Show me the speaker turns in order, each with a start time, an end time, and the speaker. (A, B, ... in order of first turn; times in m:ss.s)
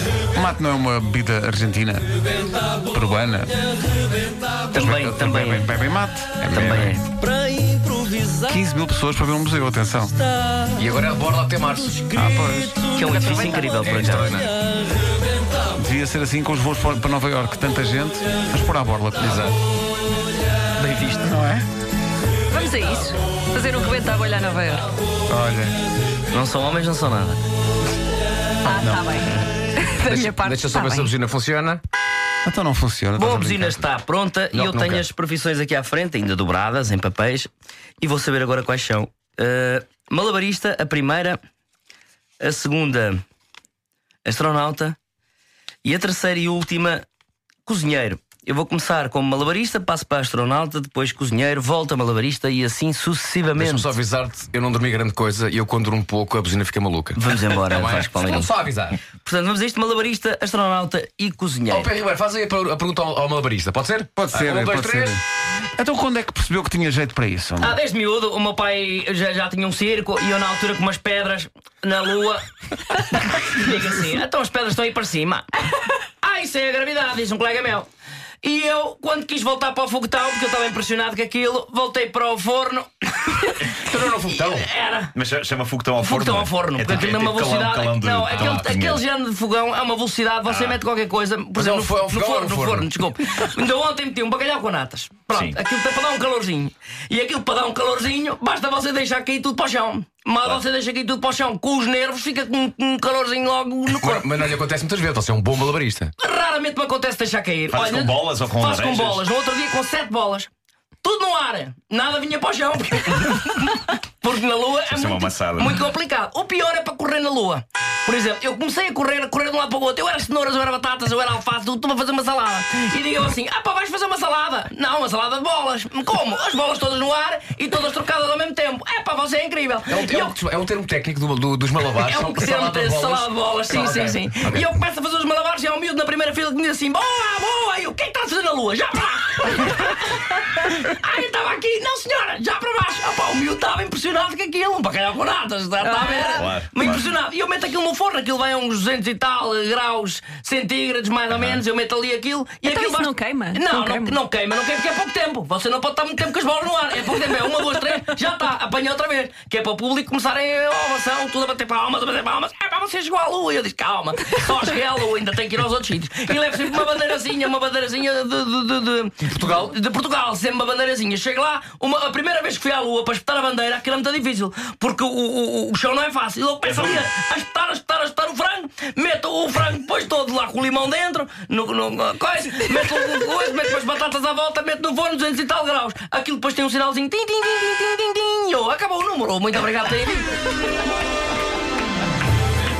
0:00.4-0:02.1 A
0:02.8-0:03.6 A
0:04.7-0:05.7 B
0:04.8-0:07.0 A
0:06.5-0:07.1 B
0:08.4-0:10.1 A
0:10.7-0:12.1 C
0:12.1-0:13.5 A
0:12.8-0:14.4 B
0:13.1-0:14.5 C
0:15.8-0:19.5 A
0:19.2-0:19.6 C
0:20.8-0:21.3 B
0:21.3-0:21.7 A
0:22.5-0:24.9 D
0:25.3-0:25.8 A
0:26.3-0:27.4 B
0:28.6-0:31.1 D
0:28.8-0:29.2 A
0:30.0-0:31.8 C
0:32.4-0:33.8 A
0:33.2-0:41.4 B
0:34.5-0:35.1 C
0:42.4-0:43.2 B
0:44.2-0:45.0 B
0:45.8-0:47.0 B
0:47.7-0:54.0 B
0:53.6-0:59.0 C
0:57.2-0:58.5 B
0:59.2-1:01.9 B
1:01.7-1:05.2 C
1:04.2-1:05.2 A
1:05.8-1:07.8 A
1:07.6-1:15.5 B
1:16.2-1:17.9 B
1:18.4-1:25.2 B
1:23.8-1:24.7 C
1:25.2-1:29.0 E
1:26.0-1:44.3 B
1:30.5-1:30.8 E
1:31.6-1:32.9 C
1:35.3-1:35.6 E
1:43.9-1:46.1 C
1:46.2-1:50.5 B
1:47.7-1:49.2 E
1:51.0-2:10.4 B
1:54.9-1:55.8 E
2:09.9-2:14.7 C
2:12.0-3:10.4 B
2:26.2-2:27.1 E
2:31.3-2:31.6 E
2:32.6-2:34.2 D
2:49.3-2:49.6 C
2:56.7-2:57.0 E